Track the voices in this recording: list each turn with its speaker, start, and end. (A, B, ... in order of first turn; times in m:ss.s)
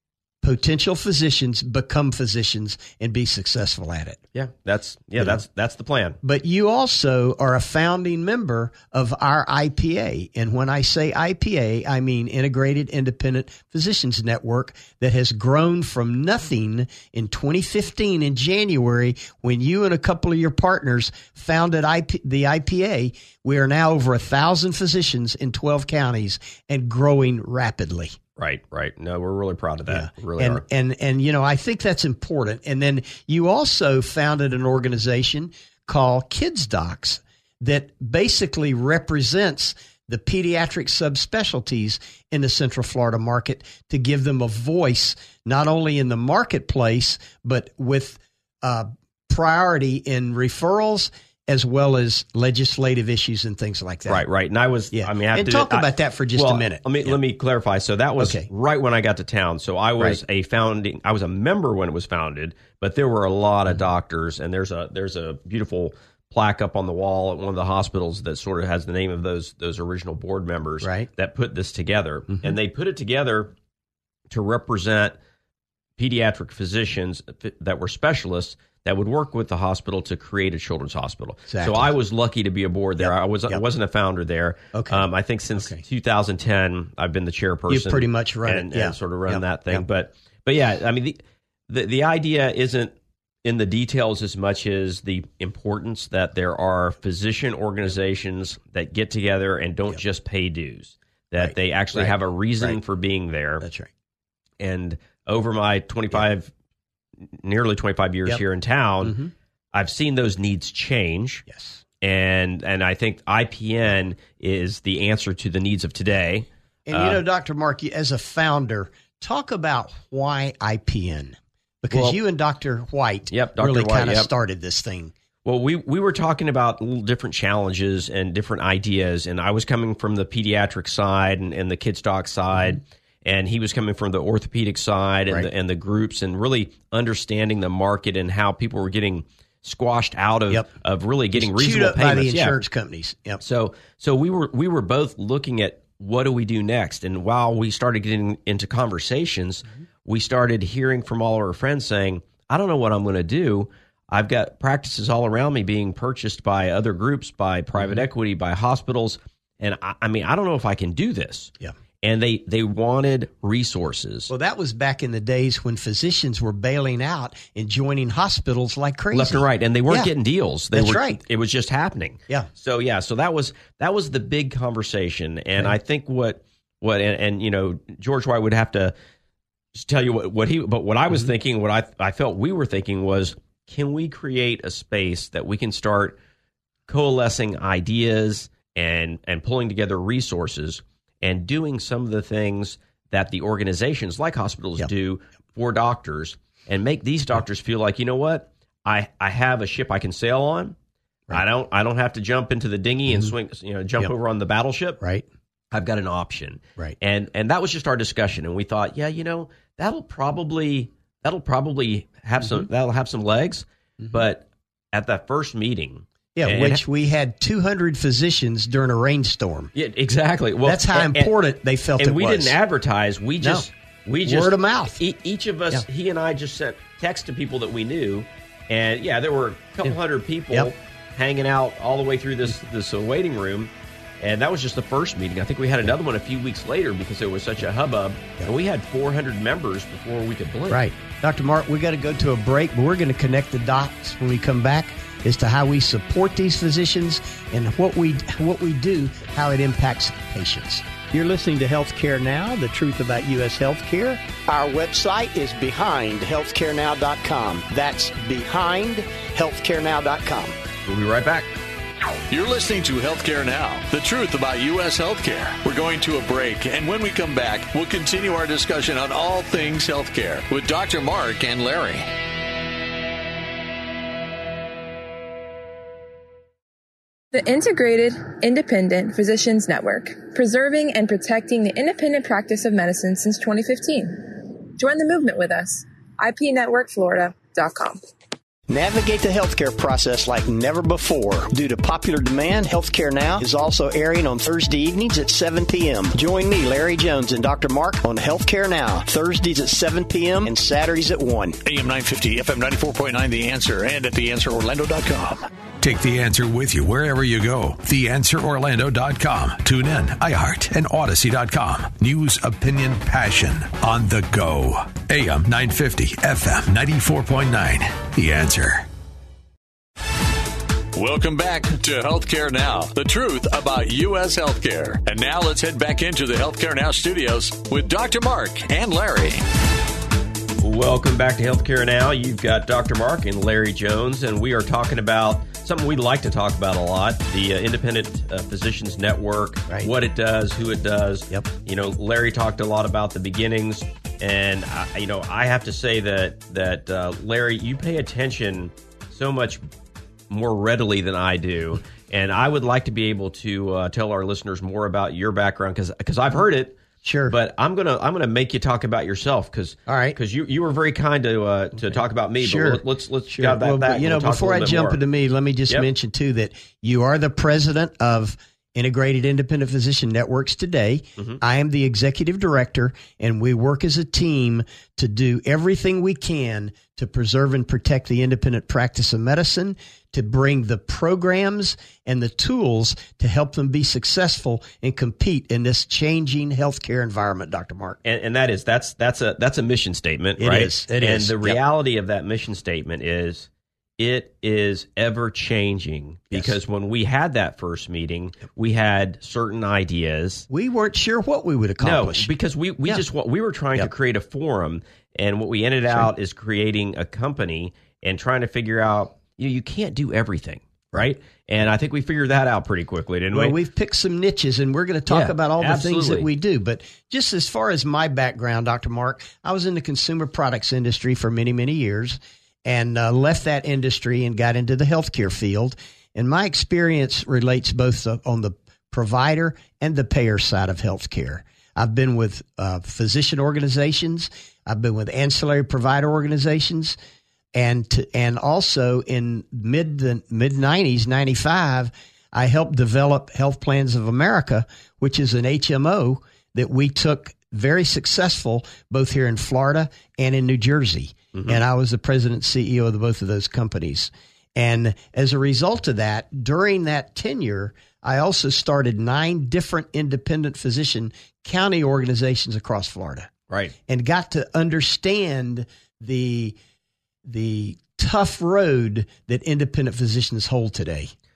0:00.4-0:04.2 A
0:04.3-0:06.2 B
0:06.2-0:28.2 A
0:28.4-0:30.6 B
0:29.9-0:54.2 A
0:54.1-1:13.5 B
0:54.9-0:57.2 A
0:58.2-0:58.5 A
1:10.8-1:11.1 A
1:14.3-1:15.2 B
1:16.0-1:43.6 B
1:21.5-1:21.9 A
1:23.0-1:23.6 A
1:24.7-1:25.8 A
1:27.7-1:29.8 A
1:41.4-1:42.8 A
1:43.6-1:43.9 A
1:44.6-1:46.5 B
1:47.4-1:49.2 B
1:49.0-1:49.3 A
1:49.7-1:51.4 B
1:51.5-1:51.8 A
1:52.0-1:57.2 B
1:56.9-2:05.1 A
2:01.9-2:02.2 B
2:03.3-2:04.3 B
2:05.4-2:22.6 B
2:21.4-2:23.4 A
2:23.4-2:44.3 B
2:44.3-2:50.1 A
2:49.1-2:59.0 B
2:50.7-2:51.2 A
2:59.7-3:06.2 B
3:06.9-3:20.8 B
3:21.3-3:25.0 B
3:25.7-3:36.8 B
3:36.4-3:39.7 A
3:39.8-3:41.3 B
3:40.6-3:42.6 A
3:42.0-4:00.8 B
3:43.4-3:43.7 A
3:44.2-3:45.0 A
4:00.7-4:20.6 A
4:20.8-4:21.5 B
4:22.3-4:32.1 C
4:37.3-4:48.0 D
4:48.7-5:01.6 A
5:01.6-5:05.4 C
5:05.8-5:18.9 E
5:21.0-5:29.5 C
5:30.6-5:49.6 B
5:50.3-5:56.8 B
5:57.0-5:57.4 A
5:57.3-6:05.0 B
5:59.9-6:00.2 A
6:02.4-6:28.0 A
6:28.0-6:40.5 B
6:30.4-6:31.6 A
6:40.5-6:42.3 A
6:41.8-6:53.6 B
6:53.3-7:17.0 A
6:55.1-6:56.3 B
7:17.6-7:43.3 A
7:31.3-7:31.6 B
7:43.9-7:46.6 A
7:47.3-7:51.1 A